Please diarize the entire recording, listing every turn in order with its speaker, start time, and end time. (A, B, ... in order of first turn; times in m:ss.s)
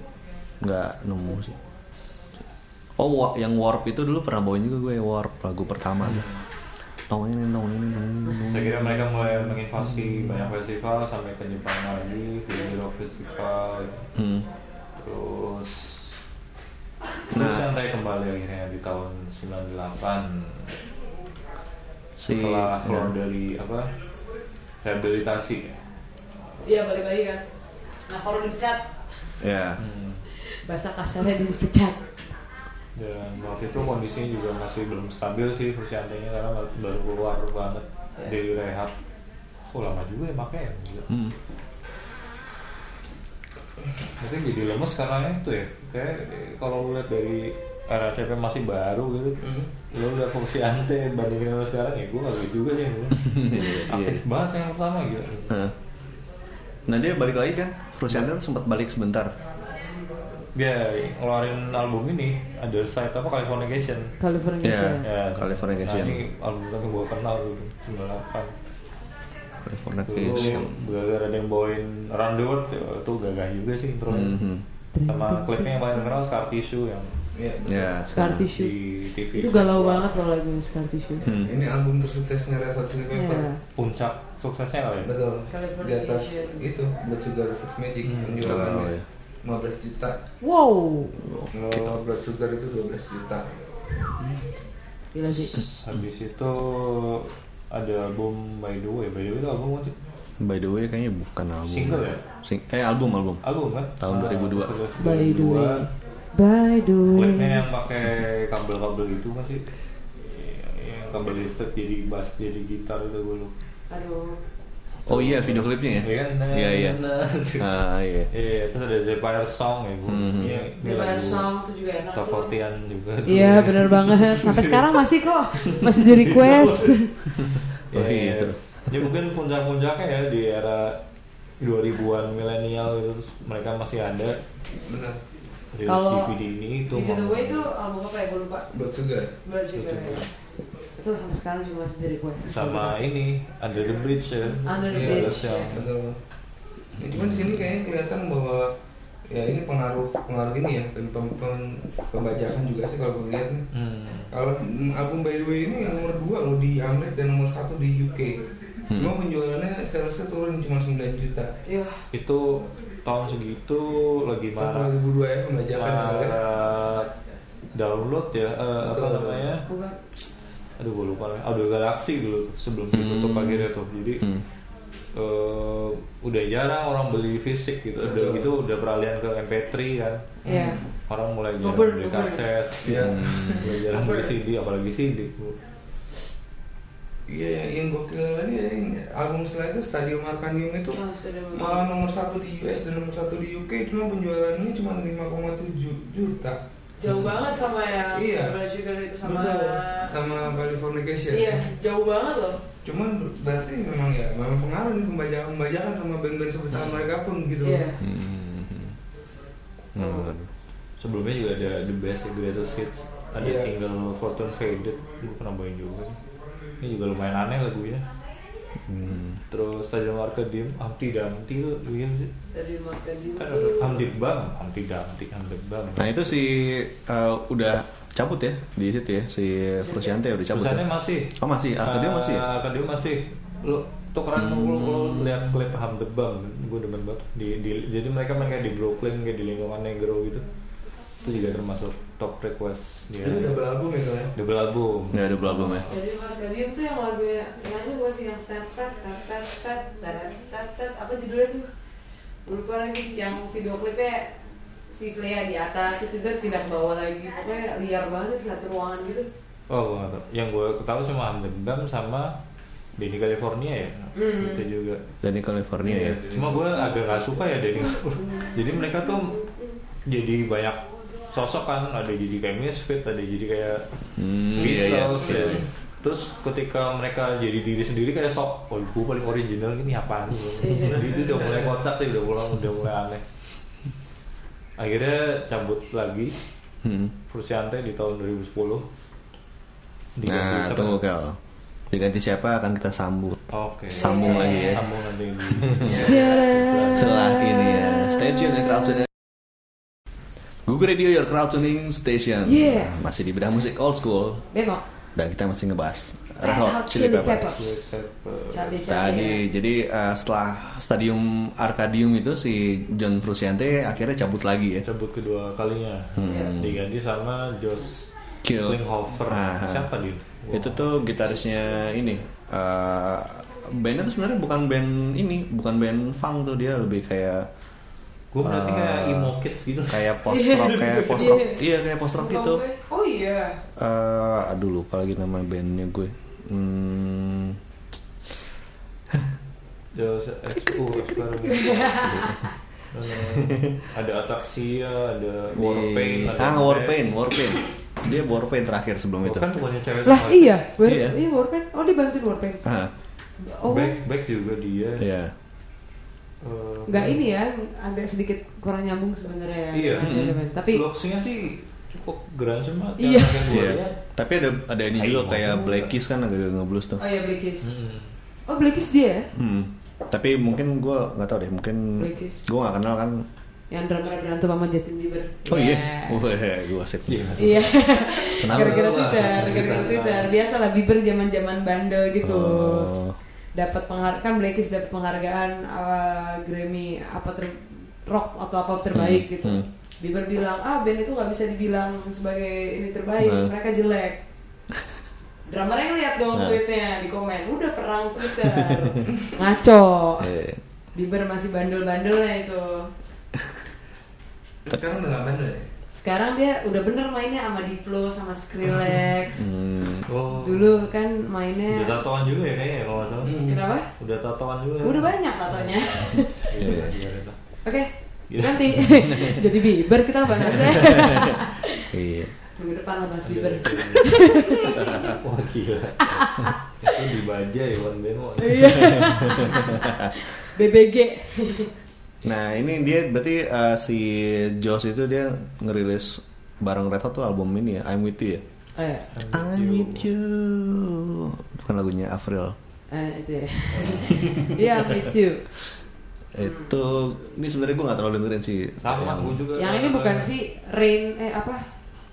0:00.6-0:01.6 A
0:03.0-0:06.2 A
0:06.0-0:06.4 B
0:07.1-0:10.4 A
0:08.4-0:14.1 B
0:14.1-0:14.5 A
0:15.0-0:16.1 B
0:17.3-0:20.7 B
0:17.3-0:17.7 A
0:22.2-0:23.1 A
0:22.3-0:23.9 B
0:24.8-0:25.8 B
0:26.6-0:27.4 C
0:28.1-0:28.8 C
0:29.4-0:29.8 A
0:29.8-0:30.2 B
0:30.4-0:32.0 C
0:33.0-0:38.9 B
0:39.7-0:41.1 B
0:41.1-0:41.3 A
0:44.2-0:55.6 B
0:49.4-0:49.7 D
0:53.2-0:54.2 A
0:55.5-0:55.7 A
0:56.9-0:59.3 A
1:00.5-1:04.1 B
1:04.2-1:05.0 C
1:04.6-1:06.2 A
1:05.0-1:08.5 B
1:09.6-1:10.7 A
1:10.0-1:14.4 B
1:14.1-1:14.6 A
1:14.9-1:16.1 C
1:15.0-1:17.1 B
1:17.3-1:18.0 D
1:17.6-1:18.5 A
1:18.1-1:18.8 C
1:18.2-1:20.1 B
1:19.3-1:21.3 C
1:21.2-1:21.6 A
1:21.3-1:23.5 D
1:23.1-1:23.6 C
1:23.8-1:25.1 B
1:25.0-1:30.2 D
1:25.5-1:26.7 C
1:28.0-1:28.6 B
1:28.4-1:29.0 A
1:30.4-1:31.1 C
1:31.2-1:32.0 A
1:31.5-1:33.6 D
1:35.1-1:35.6 C
1:35.3-1:39.9 B
1:40.4-1:43.4 A
1:41.6-1:42.2 B
1:43.4-1:45.9 B
1:44.0-1:44.7 A
1:45.0-1:47.6 C
1:47.1-1:53.5 B
1:53.9-1:54.4 C
1:55.0-1:57.0 A
1:55.1-1:57.7 B
1:57.6-1:58.3 A
1:58.3-2:01.5 B
2:00.1-2:00.6 A
2:00.4-2:00.7 D
2:00.8-2:02.6 C
2:02.1-2:04.8 B
2:03.2-2:07.1 C
2:05.6-2:11.0 B
2:07.9-2:09.0 A
2:11.6-2:14.4 B
2:14.8-2:15.2 D
2:15.7-2:17.7 B
2:15.8-2:16.4 C
2:16.9-2:18.7 C
2:18.7-2:19.3 D
2:19.4-2:20.3 C
2:19.7-2:20.3 B
2:21.0-2:23.1 C
2:22.4-2:25.9 B
2:24.6-2:25.8 C
2:24.9-2:26.2 D
2:27.0-2:28.7 D
2:27.2-2:27.5 A
2:29.3-2:33.7 D
2:33.7-2:34.3 B
2:34.3-2:41.5 D
2:38.9-2:39.1 A
2:41.6-2:42.0 C
2:42.1-2:44.9 B
2:44.6-2:46.4 D
2:45.7-2:47.1 B
2:47.7-2:49.7 B
2:48.8-2:49.5 D
2:49.7-2:50.0 C
2:50.8-2:54.3 B
2:52.9-2:53.7 A
2:55.1-3:00.2 B
2:58.0-2:58.5 D
3:00.4-3:00.8 C
3:00.4-3:00.9 D
3:01.1-3:05.6 B
3:01.6-3:02.5 C
3:02.8-3:03.7 D
3:02.9-3:03.6 A
3:03.9-3:04.3 C
3:07.3-3:16.6 D
3:10.9-3:11.9 C
3:17.0-3:20.2 C
3:17.1-3:17.3 B
3:18.1-3:18.6 D
3:19.2-3:21.7 D
3:21.3-3:22.6 C
3:22.8-3:27.9 D
3:26.7-3:27.0 B
3:27.6-3:28.0 C
3:28.0-3:29.0 A
3:29.9-3:30.5 A
3:30.0-3:30.3 C
3:31.0-3:36.2 B
3:33.4-3:33.7 D
3:36.8-3:38.0 B
3:38.8-3:39.4 A
3:39.5-3:42.3 B
3:42.5-3:44.1 C
3:43.4-3:46.2 B
3:46.0-3:52.4 A
3:49.8-3:50.1 C
3:50.5-4:00.4 B
3:54.3-3:55.6 A
4:01.2-4:03.6 B
4:03.2-4:04.3 D
4:04.3-4:05.9 B
4:05.1-4:05.9 A
4:05.9-4:11.7 C
4:12.4-4:14.3 C
4:14.9-4:19.3 C
4:19.7-4:22.4 B
4:23.0-4:25.0 B
4:24.1-4:24.6 C
4:25.2-4:26.2 A
4:25.8-4:27.2 D
4:26.3-4:29.4 B
4:30.0-4:33.9 B
4:34.2-4:35.6 A
4:34.5-4:43.2 B
4:35.2-4:35.6 D
4:40.6-4:41.0 C
4:40.9-4:41.7 D
4:44.8-4:46.3 B
4:46.8-4:47.1 A
4:47.3-4:48.9 B
4:50.2-4:51.0 B
4:50.2-4:51.4 A
4:51.9-4:53.4 A
4:53.5-4:57.2 B
4:53.9-4:54.8 A
4:53.9-4:54.8 C
4:55.5-4:56.1 A
4:55.8-4:59.0 C
4:56.9-4:59.1 A
5:00.6-5:04.5 A
5:02.4-5:02.9 C
5:04.5-5:04.8 C
5:05.1-5:07.6 A
5:06.4-5:07.6 C
5:07.4-5:08.8 B
5:08.5-5:09.4 C
5:08.8-5:14.8 A
5:14.8-5:20.9 B
5:16.2-5:16.8 A
5:16.2-5:16.5 C
5:18.4-5:19.9 A
5:20.5-5:27.5 A
5:28.3-5:30.2 B
5:28.4-5:29.3 A
5:29.9-5:32.6 A
5:30.3-5:33.6 C
5:33.8-5:37.6 A
5:39.9-5:42.3 B
5:41.4-5:42.5 C
5:42.0-5:42.4 A
5:42.9-5:47.0 B
5:43.2-5:43.8 A
5:45.5-5:49.5 A
5:49.2-5:50.6 B
5:50.0-5:52.6 C
5:50.8-5:51.2 A
5:52.6-5:52.9 A
5:53.4-5:54.0 C
5:53.6-5:55.0 B
5:55.0-5:55.3 A
5:56.4-5:57.2 B
5:56.9-6:00.8 C
5:59.7-6:00.2 B
6:00.0-6:00.4 A
6:00.7-6:04.0 B
6:03.0-6:03.5 C
6:03.5-6:07.0 A
6:05.0-6:05.9 B
6:07.0-6:07.7 C
6:07.6-6:08.1 B
6:08.5-6:09.3 C
6:09.3-6:13.2 A
6:12.0-6:12.4 C
6:13.7-6:16.3 C
6:15.5-6:17.6 A
6:17.1-6:20.3 B
6:17.4-6:22.9 C
6:18.4-6:19.1 A
6:22.2-6:23.2 A
6:23.5-6:34.2 C
6:28.9-6:29.7 A
6:33.2-6:33.5 A
6:35.4-6:40.3 C
6:36.3-6:36.6 A
6:38.6-6:39.0 A
6:40.2-6:40.6 A
6:40.9-6:42.9 C
6:44.6-6:45.7 D
6:45.9-6:49.5 C
6:49.3-6:50.1 A
6:50.1-6:50.9 B
6:50.4-6:52.0 C
6:51.7-6:57.4 B
6:53.2-6:53.6 D
6:53.4-6:53.9 C
6:54.8-6:56.4 C
6:56.6-6:57.0 A
6:57.6-7:01.9 C
6:58.3-6:59.2 B
7:00.6-7:01.4 A
7:01.9-7:02.3 A
7:02.6-7:05.1 C
7:03.2-7:06.2 B
7:04.7-7:05.2 A
7:06.1-7:06.6 C
7:06.8-7:09.7 B
7:08.4-7:11.7 C
7:08.8-7:10.1 A
7:12.2-7:18.4 A
7:18.8-7:19.1 C
7:19.1-7:20.1 B
7:19.3-7:22.6 A
7:22.9-7:25.5 C
7:23.8-7:24.8 A
7:26.3-7:29.4 A
7:26.4-7:26.7 C
7:28.8-7:30.3 B
7:29.6-7:31.7 C